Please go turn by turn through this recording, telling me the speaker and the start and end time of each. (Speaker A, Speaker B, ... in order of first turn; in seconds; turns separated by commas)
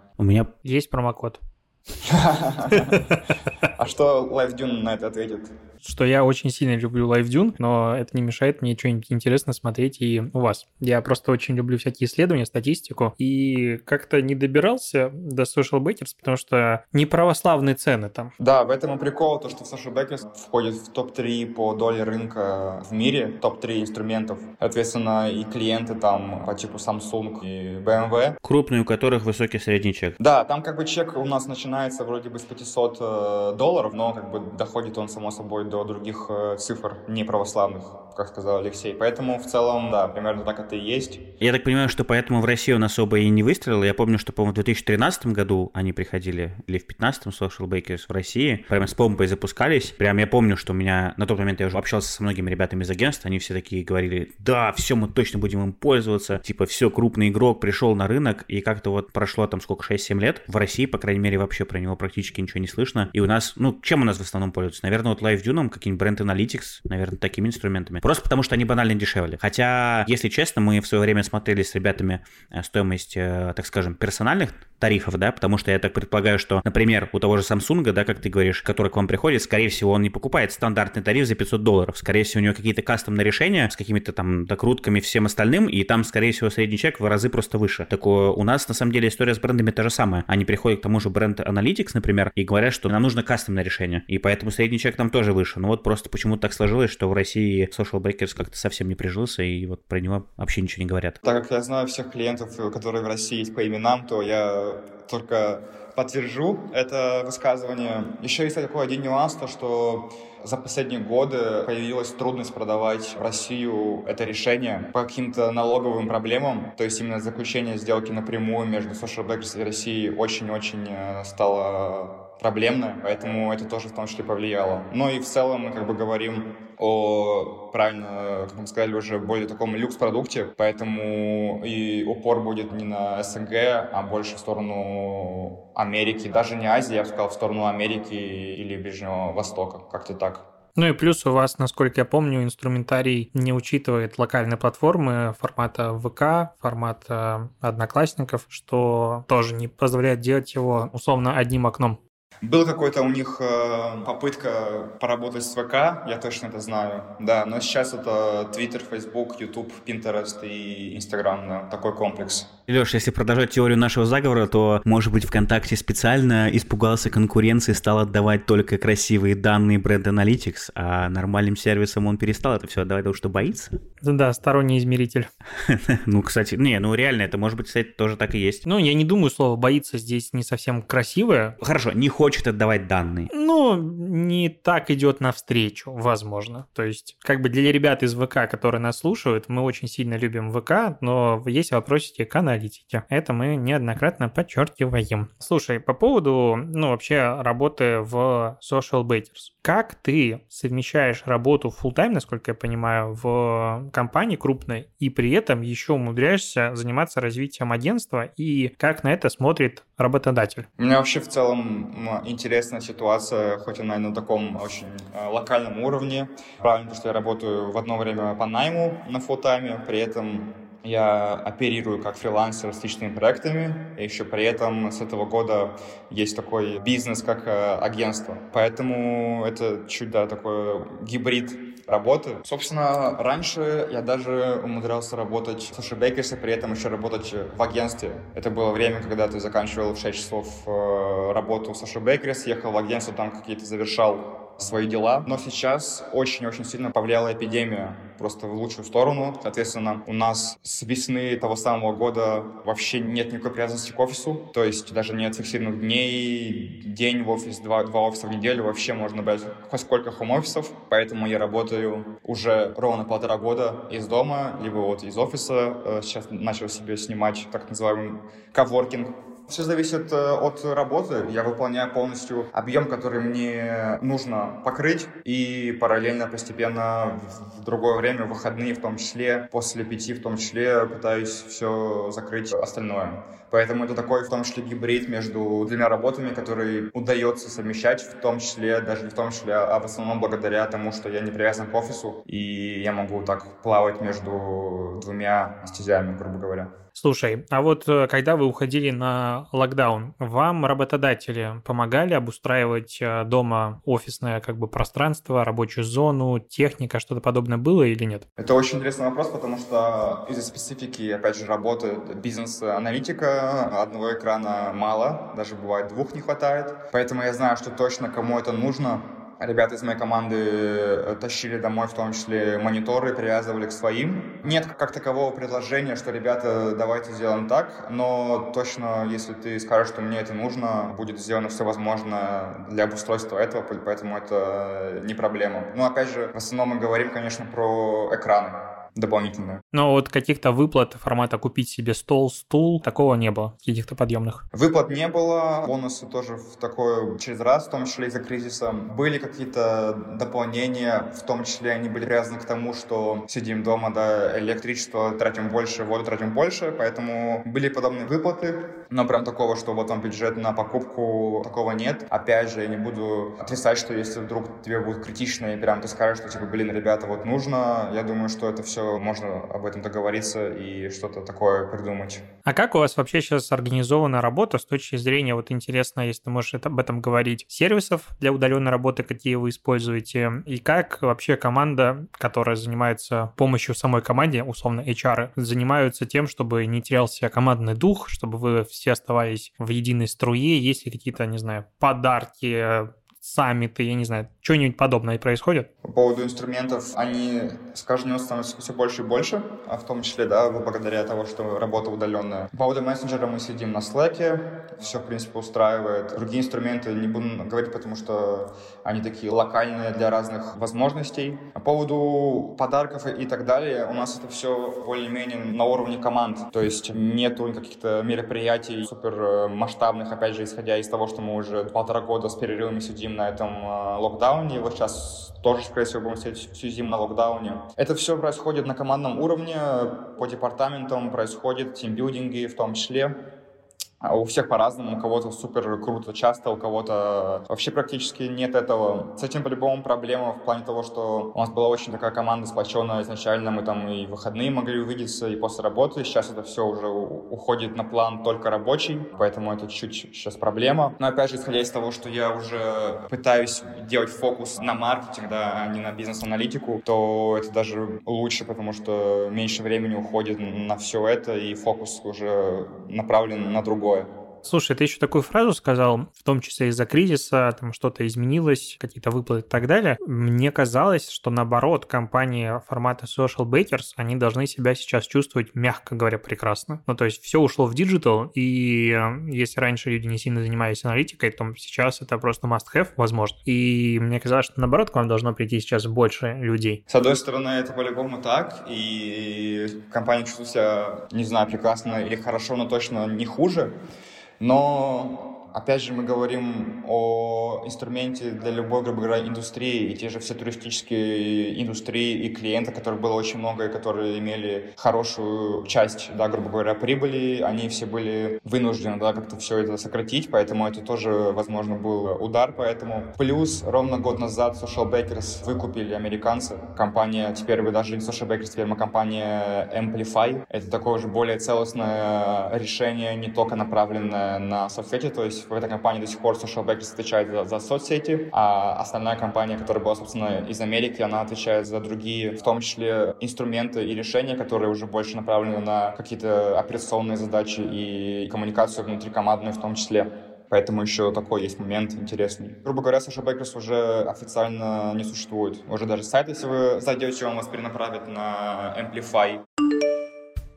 Speaker A: 0.2-0.5, Speaker B: 0.6-1.4, Speaker C: 2.0-3.1, Speaker B: 2.7-3.2, Speaker C: 3.8-5.5, Speaker B: 5.8-18.3, Speaker C: 18.4-28.4, Speaker A: 28.4-30.2, Speaker C: 30.2-41.2, Speaker A: 41.4-101.2, Speaker C: 101.2-140.4, Speaker B: 140.8-152.0, Speaker C: 152.4-162.5, Speaker A: 162.7-173.8, Speaker B: 174.0-175.3, Speaker A: 175.6-178.6, Speaker B: 178.7-181.6, Speaker A: 181.6-183.3, Speaker B: 183.3-210.7, Speaker C: 210.8-296.7, Speaker B: 296.9-308.2, Speaker C: 308.4-339.6, Speaker B: 339.7-344.4, Speaker C: 344.5-372.2, Speaker B: 372.5-395.7, Speaker C: 395.8-433.1, Speaker C: 434.0-464.1, Speaker B: 464.4-486.8, Speaker C: 486.9-493.8, Speaker C: 494.4-549.4